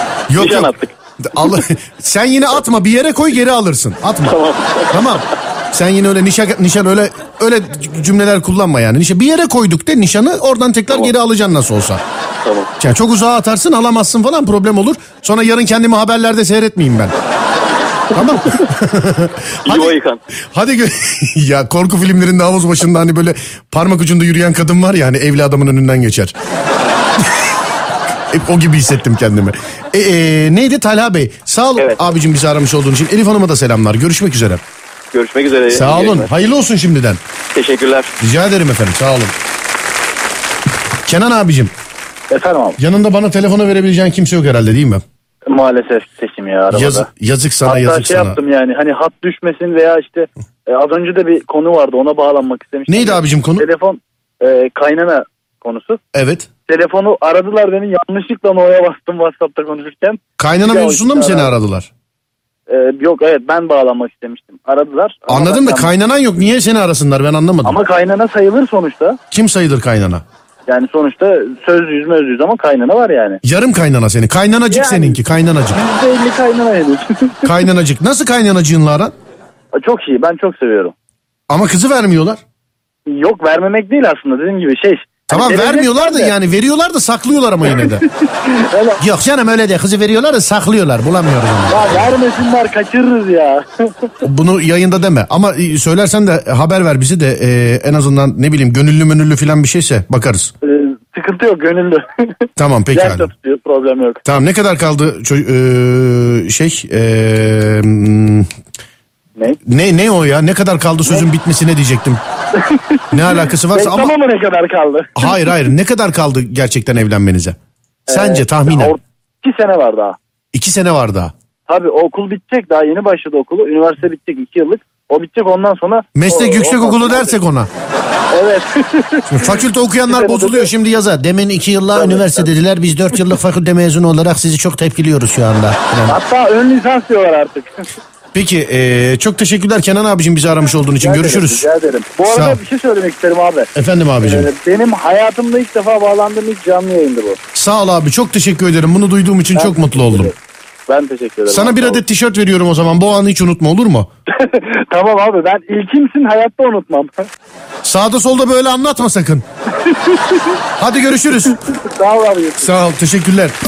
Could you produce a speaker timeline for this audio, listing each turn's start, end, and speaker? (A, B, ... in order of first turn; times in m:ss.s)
0:00.3-0:00.7 A
0:00.4-0:00.9 B
0:01.2-0:04.4 A
0:04.2-0:05.2 B
0:04.9-0:12.0 A
0:10.9-0:11.1 B
0:12.4-0:12.7 B
0:12.8-0:17.1 A
0:17.6-0:18.2 B
0:18.1-0:20.0 A
0:19.6-0:20.2 B
0:20.5-0:26.3 A
0:28.3-0:34.6 A
0:31.8-0:32.1 B
0:35.1-0:36.3 B
0:35.7-0:37.2 A
0:37.6-0:38.1 B
0:38.2-0:39.4 A
0:41.1-0:41.7 A
0:42.3-0:42.8 C
0:42.8-0:45.0 A
0:45.5-0:47.1 C
0:46.7-0:48.4 A
0:47.6-0:56.0 C
0:52.9-0:53.7 A
0:56.1-0:56.5 A
0:56.7-1:01.6 C
1:00.4-1:01.9 A
1:02.7-1:05.9 C
1:05.3-1:07.8 A
1:07.6-1:09.2 C
1:09.3-1:10.2 A
1:10.7-1:13.4 C
1:13.4-1:15.8 A
1:14.7-1:15.2 C
1:15.7-1:17.5 C
1:17.4-1:19.1 A
1:19.7-1:20.9 C
1:21.5-1:22.4 A
1:23.1-1:26.4 C
1:25.3-1:28.0 A
1:27.6-1:29.0 C
1:29.0-1:32.2 A
1:31.7-1:34.1 C
1:34.2-1:40.5 A
1:40.6-1:44.2 C
1:42.6-1:43.3 A
1:44.3-1:48.5 A
1:49.7-1:52.2 A
1:52.6-1:55.5 C
1:53.1-1:54.1 A
1:55.2-1:57.6 A
1:58.1-1:59.0 A
1:58.1-2:00.2 C
2:00.5-2:01.3 A
2:01.7-2:07.4 C
2:06.2-2:07.7 A
2:08.3-2:10.7 C
2:09.3-2:16.2 A
2:11.9-2:12.5 C
2:16.1-2:17.9 C
2:18.3-2:21.7 A
2:21.0-2:23.7 C
2:22.3-2:22.6 A
2:23.8-2:24.5 A
2:24.2-2:27.4 C
2:27.5-2:30.3 A
2:29.6-2:30.4 C
2:30.9-2:32.0 C
2:31.5-2:34.1 A
2:34.3-2:37.3 C
2:37.8-2:39.4 A
2:39.8-2:40.5 C
2:40.8-2:41.6 A
2:41.7-2:42.7 C
2:42.6-2:43.6 A